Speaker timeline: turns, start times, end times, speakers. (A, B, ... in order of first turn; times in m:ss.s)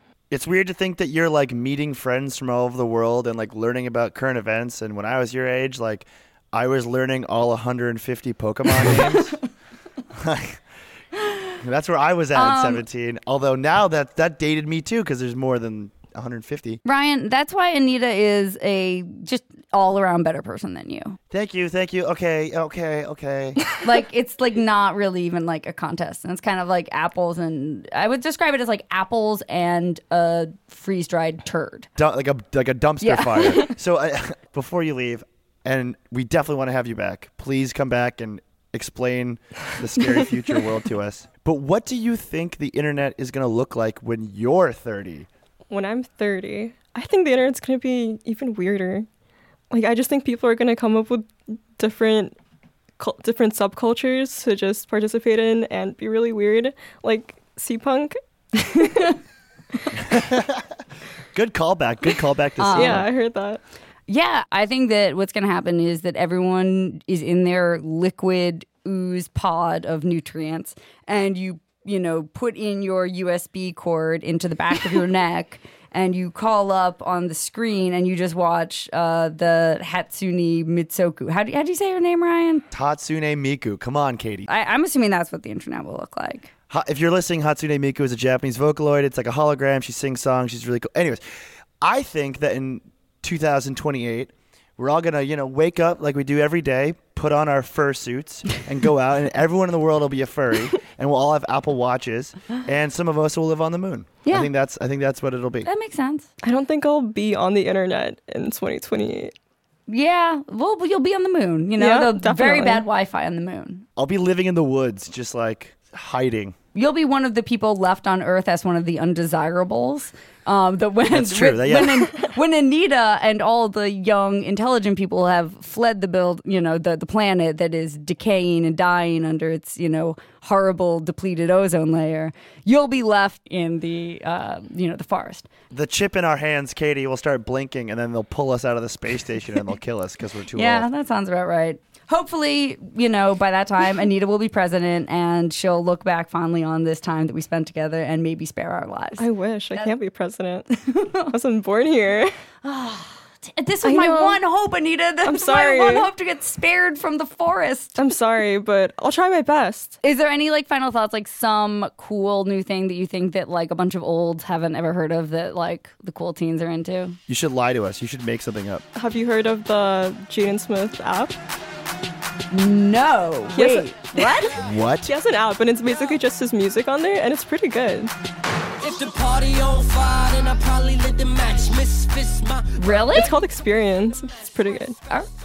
0:00.3-0:09.4 A
0:08.8-0:09.2 B
0:10.1-0:10.6 A
0:11.6-0:16.8 A
0:12.3-0:12.8 B
0:16.8-0:21.2 B
0:21.3-0:23.6 A
0:23.8-0:31.9 B
0:32.0-0:45.3 A
0:33.0-0:33.7 B
0:45.7-0:49.1 C
0:49.7-0:52.4 C
0:53.0-0:59.1 C
1:00.0-1:00.6 A
1:01.3-1:03.0 A
1:02.6-1:03.0 B
1:02.7-1:03.6 C
1:04.1-1:22.6 B
1:22.7-1:24.5 A
1:24.5-1:26.5 B
1:26.7-1:31.2 A
1:31.8-1:45.7 A
1:45.6-1:46.3 B
1:46.4-1:49.3 C
1:49.9-1:53.8 B
1:51.8-1:52.8 C
1:54.0-1:56.6 A
1:56.7-2:15.5 B
2:01.1-2:02.1 A
2:15.7-2:20.9 A
2:20.6-2:29.9 B
2:29.2-2:30.7 C
2:30.7-2:31.3 B
2:31.3-2:32.3 C
2:32.6-2:38.0 B
2:33.8-2:34.4 C
2:35.2-2:36.1 C
2:38.0-2:40.0 C
2:40.0-2:47.2 B
2:47.3-2:48.8 A
2:48.9-2:51.4 C
2:52.5-2:54.6 B
2:53.5-2:54.5 C
2:54.5-2:55.1 A
2:55.1-2:58.1 C
2:58.8-3:03.0 D
3:02.8-3:03.3 B
3:03.1-3:05.0 C